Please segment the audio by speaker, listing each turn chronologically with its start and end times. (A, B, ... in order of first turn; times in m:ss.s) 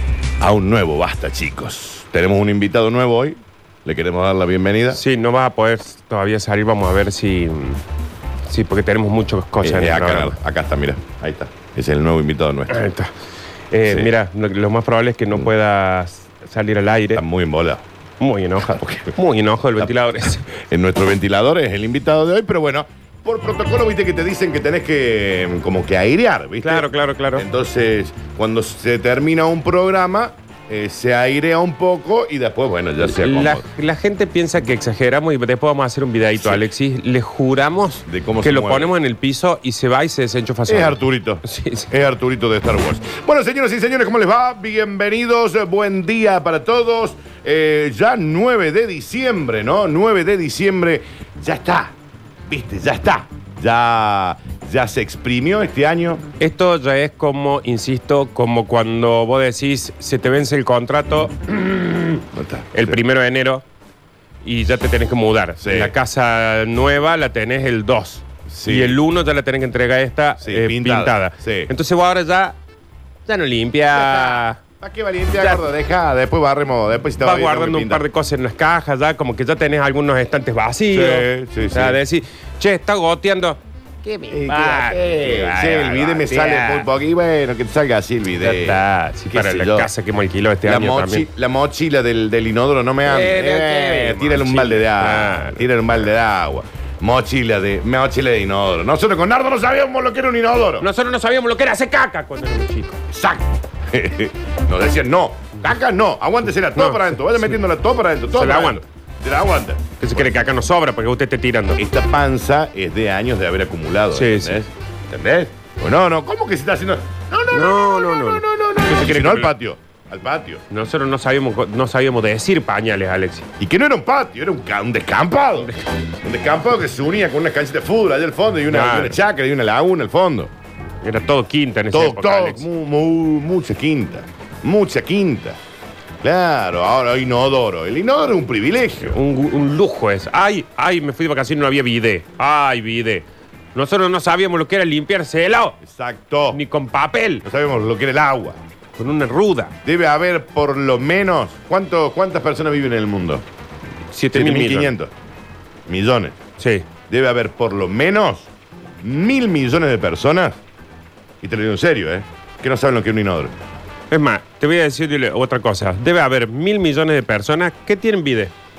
0:00.4-0:05.0 A
0:04.9-0:07.8 B
0:08.5-0:10.4 B
0:09.6-0:12.8 A
0:12.7-0:13.1 B
0:13.7-0:17.2 B
0:13.8-0:14.1 A
0:17.2-0:17.8 A
0:18.2-0:20.5 B
0:18.6-0:19.1 A
0:20.5-0:33.7 A
0:26.6-0:27.4 B
0:33.0-0:41.9 B
0:38.1-0:38.9 A
0:40.7-0:51.9 A
0:52.5-0:56.2 A
0:56.4-1:03.6 B
1:02.3-1:03.0 A
1:04.4-1:12.6 B
1:05.6-1:06.0 A
1:08.5-1:09.0 A
1:10.4-1:11.7 A
1:13.3-1:14.6 B
1:13.9-1:18.1 A
1:15.3-1:15.7 B
1:17.2-1:26.9 B
1:20.9-1:22.0 A
1:24.3-1:28.8 A
1:28.4-1:31.3 B
1:29.3-1:29.9 A
1:30.7-1:40.9 A
1:33.1-1:35.7 B
1:40.8-1:43.0 B
1:43.1-1:50.4 A
1:46.7-1:47.6 B
1:48.3-1:48.8 B
1:50.0-1:51.8 B
1:51.8-2:00.6 A
1:54.1-1:54.6 B
1:57.5-1:59.5 B
2:00.7-2:03.5 B
2:03.6-2:10.5 A
2:05.6-2:05.9 B
2:08.7-2:09.2 B
2:11.0-2:12.7 B
2:11.9-2:15.6 A
2:16.2-2:19.2 A
2:19.0-2:25.8 B
2:25.8-2:26.6 A
2:26.5-2:27.4 B
2:27.4-2:28.6 A
2:29.0-2:29.7 B
2:29.8-2:33.4 A
2:34.1-2:34.9 B
2:34.3-2:35.1 A
2:35.9-2:36.4 A
2:36.6-2:36.9 B
2:37.1-2:38.5 A
2:39.0-2:40.6 A
2:41.4-2:43.5 A
2:44.1-2:48.5 B